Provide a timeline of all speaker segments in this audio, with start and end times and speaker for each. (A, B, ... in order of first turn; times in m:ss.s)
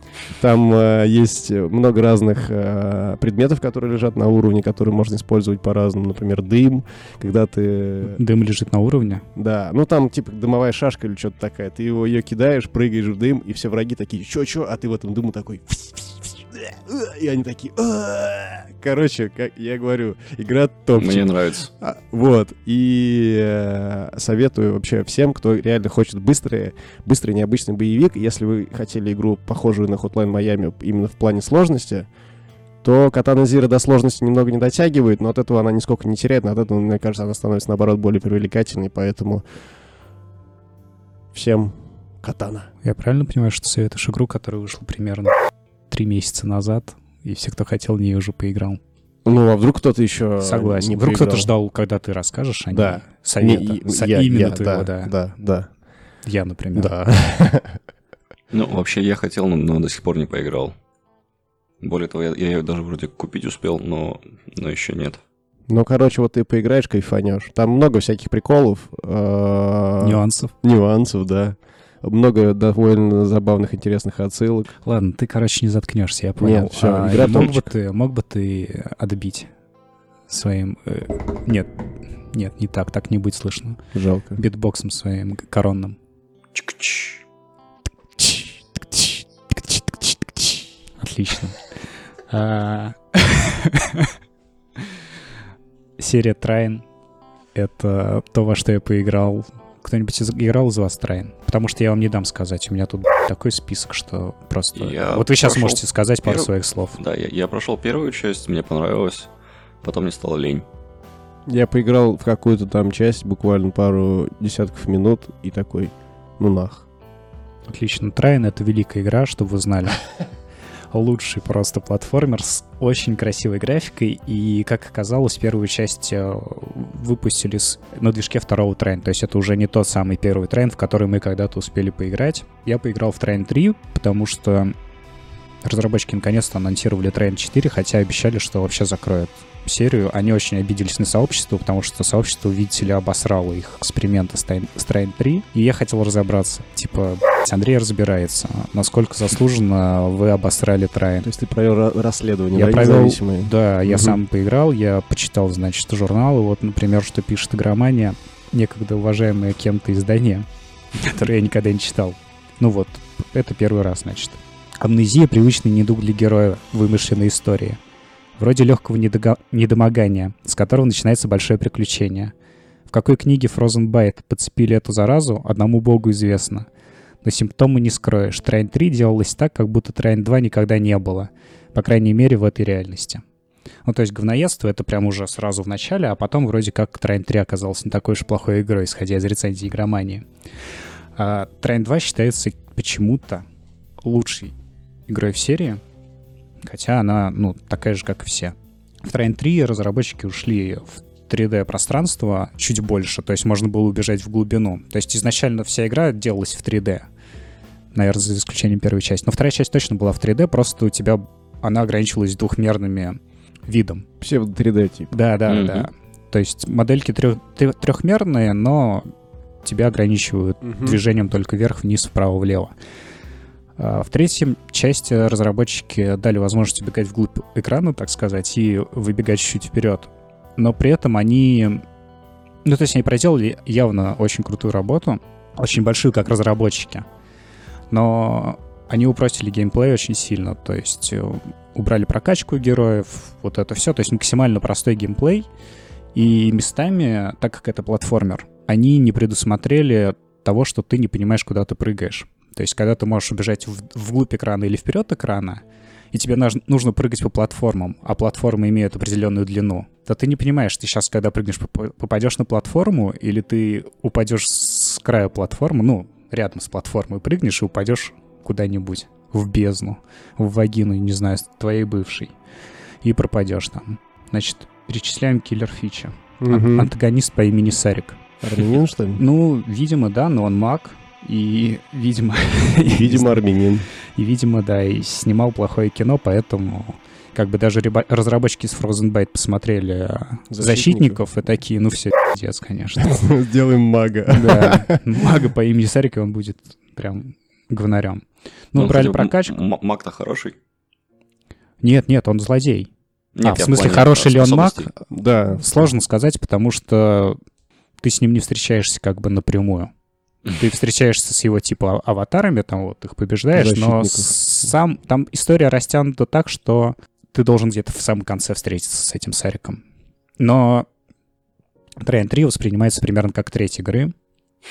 0:00.4-0:08.2 A
0:08.0-0:09.2 B
0:09.4-0:32.1 A
0:20.9-0:21.7 C
0:32.8-0:39.4 A
0:41.3-0:42.7 A
0:42.8-0:45.3 B
0:45.9-0:48.8 B
0:49.2-0:51.5 A
0:50.4-0:55.1 B
0:52.7-0:55.7 A
0:56.2-0:56.9 B
0:56.7-0:57.8 A
0:58.5-1:00.7 C
1:01.8-1:05.2 C
1:05.7-1:14.7 A
1:10.0-1:10.5 B
1:14.8-1:19.5 B
1:16.4-1:17.7 A
1:20.3-1:21.7 B
1:22.3-1:23.8 B
1:23.9-1:24.4 A
1:24.4-1:26.0 B
1:26.5-1:27.2 C
1:28.9-1:30.4 A
1:31.0-1:31.6 B
1:32.3-1:34.1 B
1:36.0-1:36.8 B
1:37.5-1:47.0 B
1:44.8-1:49.3 C
1:49.8-1:50.6 C
1:51.5-1:56.8 A
1:57.7-2:00.0 B
2:00.9-2:14.7 B
2:15.6-2:31.3 B
2:31.2-2:34.2 A
2:32.5-2:47.8 B
2:48.4-2:52.3 B
2:52.9-2:56.7 B
2:57.2-3:03.2 B
3:03.8-3:10.2 B
3:11.2-3:13.4 B
3:14.0-3:14.5 B
3:15.1-3:15.8 B
3:16.6-3:27.0 B
3:27.9-3:34.0 B
3:34.2-3:35.1 A
3:35.1-3:39.1 B
3:35.5-3:35.9 C
3:39.6-3:42.7 B
3:40.6-3:41.0 A
3:43.8-3:51.8 B
3:52.6-3:57.0 B
3:57.9-4:05.5 B
4:06.1-4:32.3 B
4:33.0-4:38.2 B
4:36.4-4:36.9 A
4:38.4-4:39.2 A
4:39.2-4:43.4 B
4:42.9-4:43.9 A
4:44.2-4:53.1 B
4:50.5-4:51.2 A
4:53.0-4:55.0 A
4:54.3-4:59.6 B
4:58.7-5:00.5 C
5:01.8-5:02.9 B
5:03.3-5:04.9 C
5:03.4-5:05.0 B
5:05.1-5:05.9 A
5:05.5-5:07.4 B
5:08.0-5:09.9 B
5:10.6-5:19.8 B
5:13.5-5:14.7 A
5:20.4-5:20.9 B
5:22.0-5:24.1 B